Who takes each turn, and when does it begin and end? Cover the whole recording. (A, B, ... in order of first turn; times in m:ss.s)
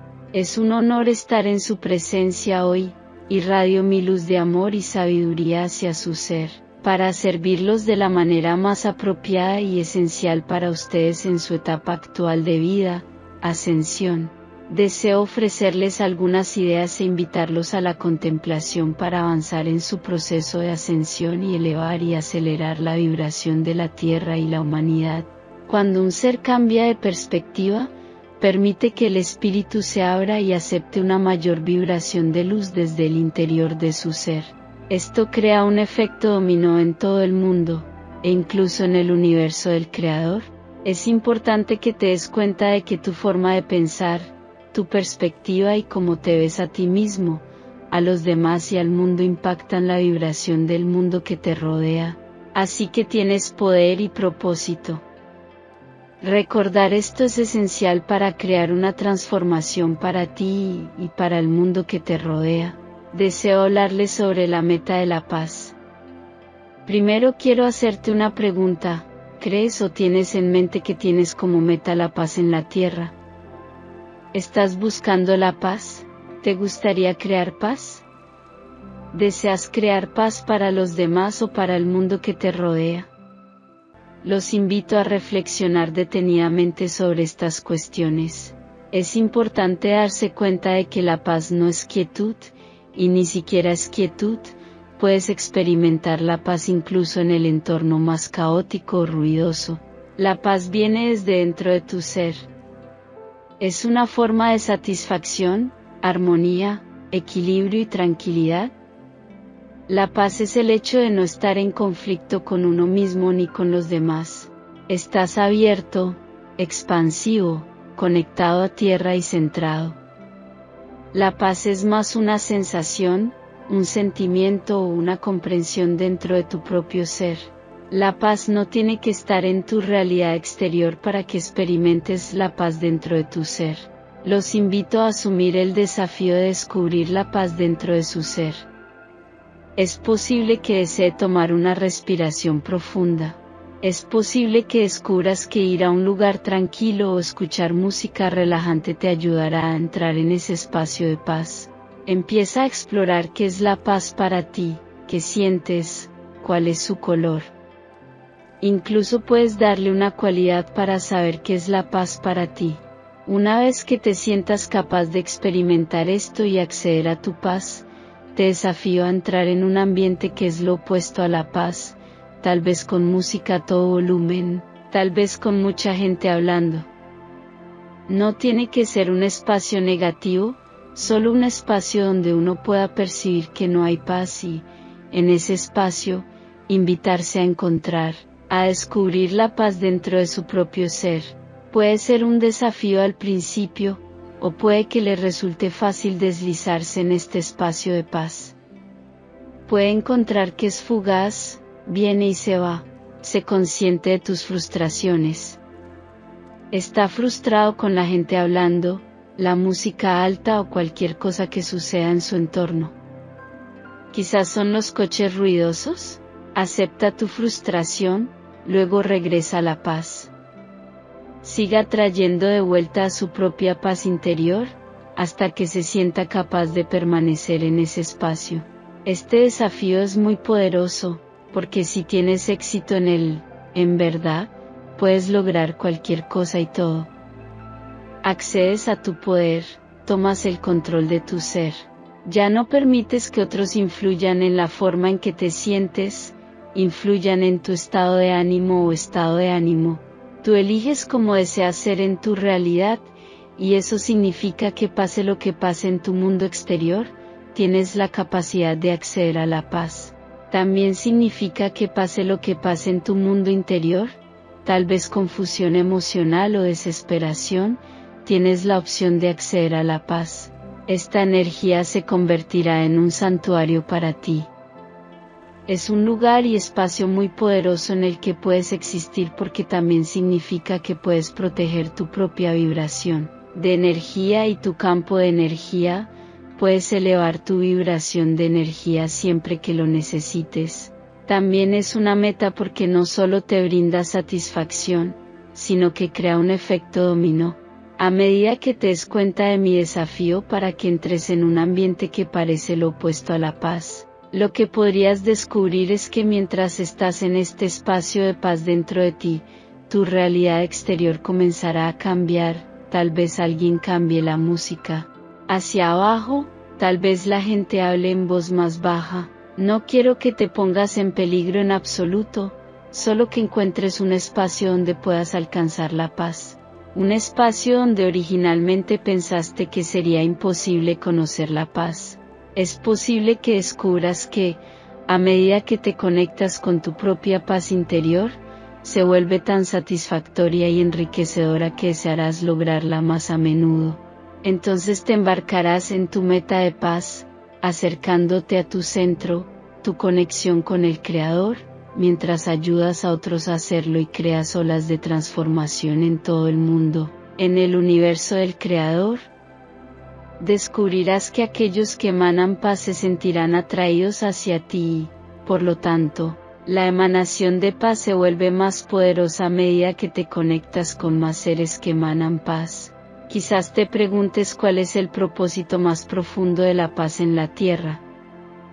0:00.3-0:55.0 A
0:56.2-1:05.8 A
1:06.8-1:13.2 A
1:14.3-1:18.0 A
1:19.1-1:23.1 A
1:24.2-1:42.5 A
1:43.6-1:48.7 A
1:49.9-2:00.0 A
2:01.1-2:18.7 A
2:19.8-2:37.5 A
2:38.6-2:56.9 A
2:58.1-3:18.6 A
3:19.7-3:25.6 A
3:26.7-3:33.0 A
3:34.1-3:40.3 A
3:41.4-3:57.1 A
3:58.2-4:34.5 A
4:35.7-5:59.3 A
6:00.4-6:18.0 A